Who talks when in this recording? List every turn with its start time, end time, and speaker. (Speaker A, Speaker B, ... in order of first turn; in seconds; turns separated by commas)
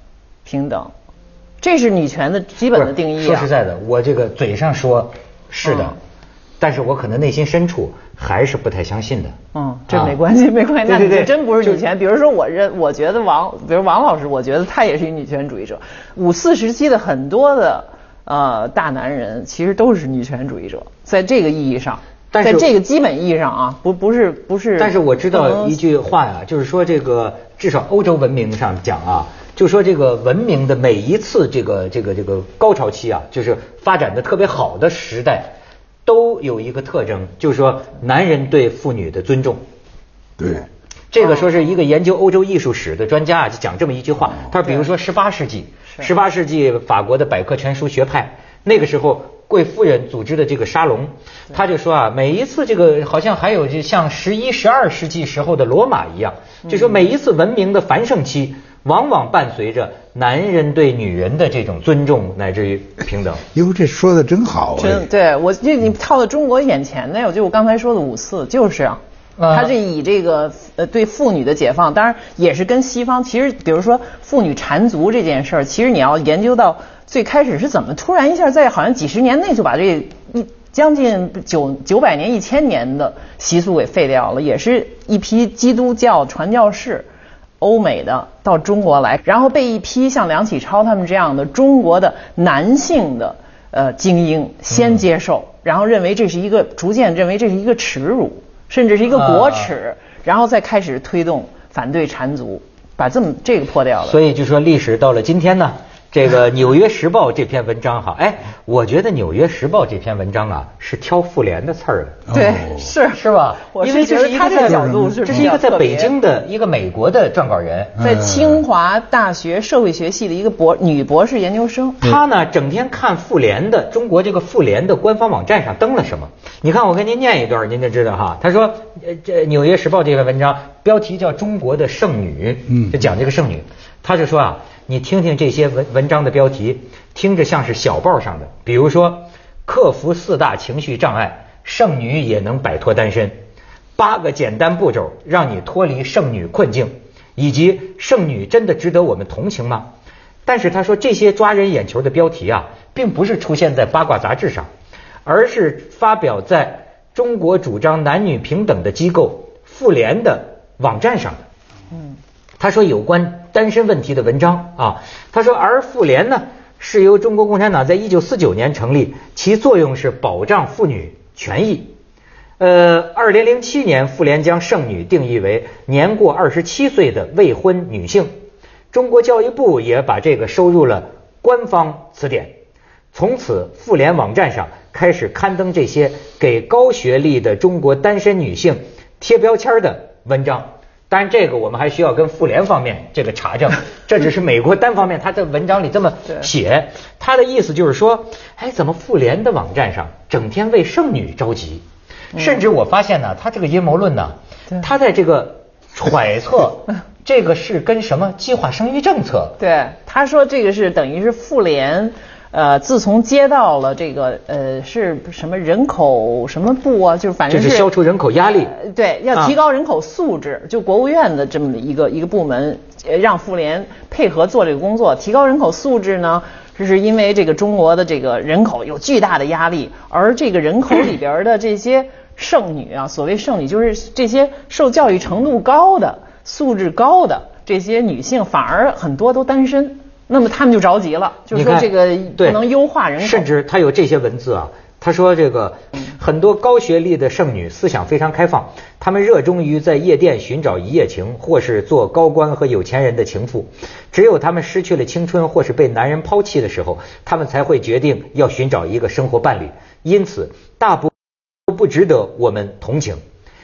Speaker A: 0.5-0.9, Speaker A: 1.6-3.5, Speaker B: 2.7-6.0, Speaker A: 5.6-5.9, Speaker B: 6.6-9.3, Speaker A: 9.6-25.8, Speaker B: 9.9-10.2, Speaker B: 10.8-11.8, Speaker B: 22.3-22.7, Speaker B: 24.8-35.5, Speaker B: 36.1-39.6, Speaker C: 40.4-40.7, Speaker B: 41.1-63.4, Speaker A: 41.2-41.5, Speaker A: 56.6-57.1, Speaker C: 63.5-65.1, Speaker A: 64.8-69.0, Speaker B: 69.4-69.7, Speaker A: 69.5-87.1, Speaker A: 87.6-104.2, Speaker B: 94.7-95.0, Speaker B: 99.1-99.7, Speaker B: 104.1-112.2, Speaker C: 112.3-112.9, Speaker A: 112.3-116.1, Speaker B: 113.1-118.0, Speaker C: 114.4-115.5, Speaker C: 118.0-118.6, Speaker A: 118.0-122.0, Speaker B: 122.0-143.4, Speaker C: 132.7-133.0, Speaker B: 144.0-149.9, Speaker B: 150.5-154.7, Speaker B: 155.3-161.4, Speaker B: 162.6-171.9, Speaker B: 172.6-178.3, Speaker B: 178.9-182.6, Speaker B: 183.1-209.6, Speaker A: 202.3-202.6, Speaker A: 209.6-217.9, Speaker B: 217.5-218.8, Speaker A: 218.7-243.5, Speaker B: 241.5-242.6, Speaker B: 243.2-261.1, Speaker B: 261.7-263.2